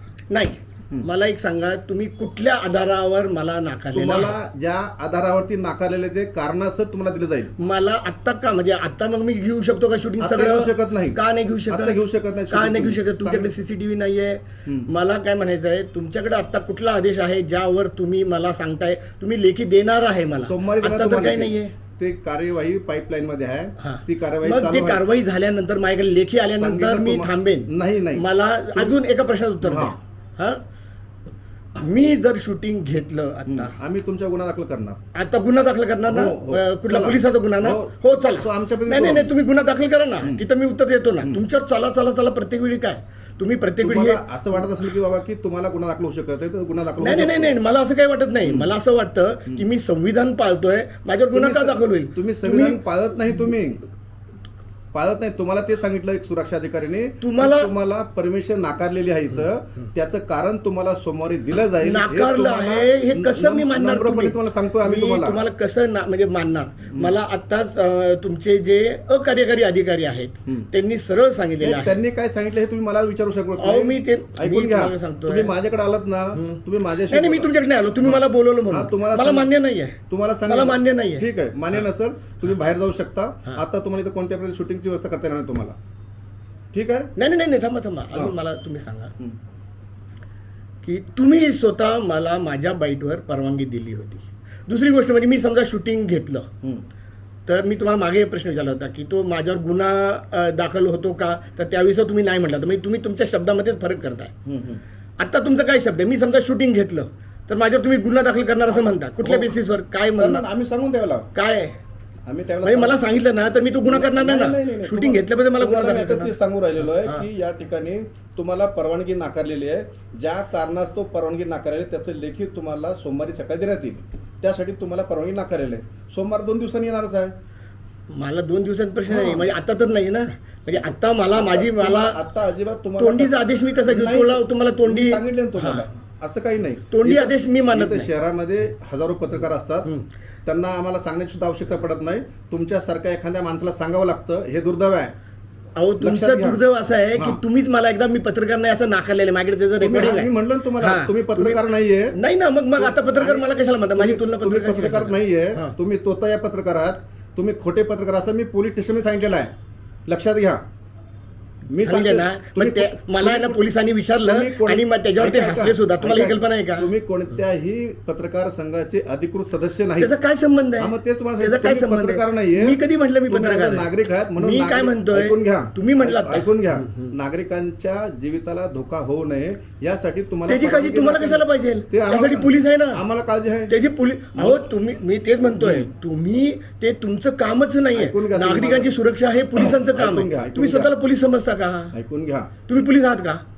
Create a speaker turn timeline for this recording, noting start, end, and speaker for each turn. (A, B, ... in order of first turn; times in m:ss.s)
0:00.3-0:04.3 A
0:03.9-0:07.5 B
0:07.6-0:21.7 A
0:10.2-0:13.5 B
0:20.4-0:25.0 B
0:23.8-0:30.6 A
0:26.6-0:29.0 B
0:29.6-0:30.0 B
0:31.8-0:33.7 A
0:33.5-0:35.0 B
0:35.1-0:44.3 A
0:36.1-0:39.3 B
0:43.8-0:47.6 B
0:47.0-0:52.8 A
0:48.4-0:48.8 B
0:51.3-0:53.8 B
0:54.9-1:05.4 B
0:57.2-0:57.7 A
1:01.8-1:12.0 A
1:11.6-1:19.5 B
1:13.6-1:15.6 A
1:16.3-1:21.3 A
1:20.1-1:25.8 B
1:26.7-1:27.1 B
1:27.2-1:29.1 A
1:30.8-1:36.5 A
1:37.5-1:44.3 A
1:44.4-1:44.8 B
1:45.2-1:50.4 A
1:49.2-1:49.6 B
1:50.2-1:51.3 B
1:51.3-1:51.8 A
1:52.3-1:53.1 B
1:52.6-1:57.2 A
1:53.9-2:07.3 B
2:08.1-2:12.2 A
2:09.1-2:09.6 B
2:10.7-2:19.9 B
2:13.0-2:15.9 A
2:16.9-2:18.1 A
2:20.4-2:25.1 B
2:25.8-2:35.7 A
2:26.0-2:26.6 B
2:27.2-2:27.4 B
2:29.8-2:32.2 B
2:32.8-2:39.5 B
2:40.1-2:40.6 B
2:41.7-2:43.6 B
2:41.8-2:46.9 A
2:44.2-2:50.1 B
2:50.0-2:57.1 A
2:50.8-3:03.8 B
3:00.5-3:03.0 A
3:03.7-3:12.0 A
3:04.4-3:04.7 B
3:05.6-3:05.9 B
3:07.9-3:08.9 B
3:09.6-3:10.9 B
3:11.9-3:12.5 B
3:12.7-3:13.4 A